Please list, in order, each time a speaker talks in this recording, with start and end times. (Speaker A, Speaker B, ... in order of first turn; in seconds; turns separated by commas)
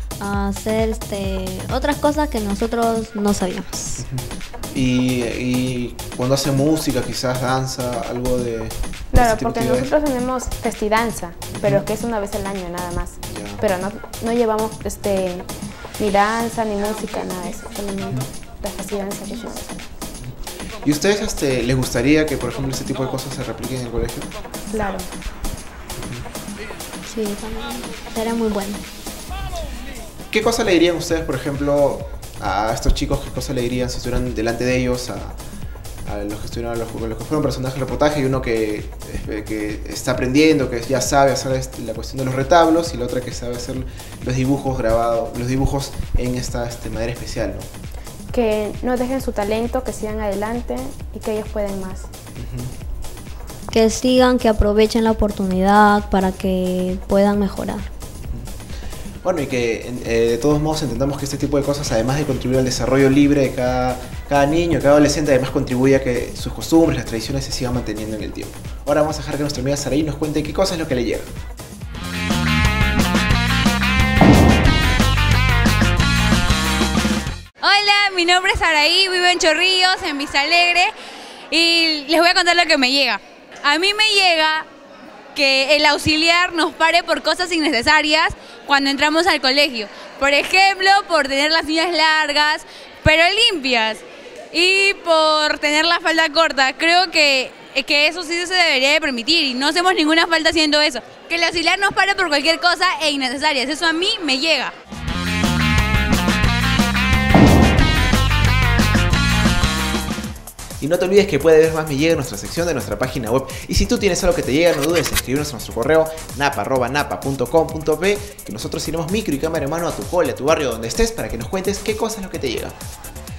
Speaker A: 0.2-4.0, Speaker B: 4.0-9.9, Speaker C: 9.1-15.5, Speaker B: 11.6-11.8, Speaker B: 13.3-13.6, Speaker C: 16.0-19.8, Speaker B: 20.8-24.3, Speaker C: 24.7-25.1, Speaker A: 27.1-28.8, Speaker B: 30.3-35.4, Speaker B: 36.0-47.7, Speaker C: 48.3-52.1, Speaker B: 52.4-52.7, Speaker A: 53.7-57.9, Speaker B: 59.2-71.3, Speaker D: 77.6-80.9, Speaker D: 81.5-84.7, Speaker D: 85.3-104.7, Speaker B: 110.8-122.8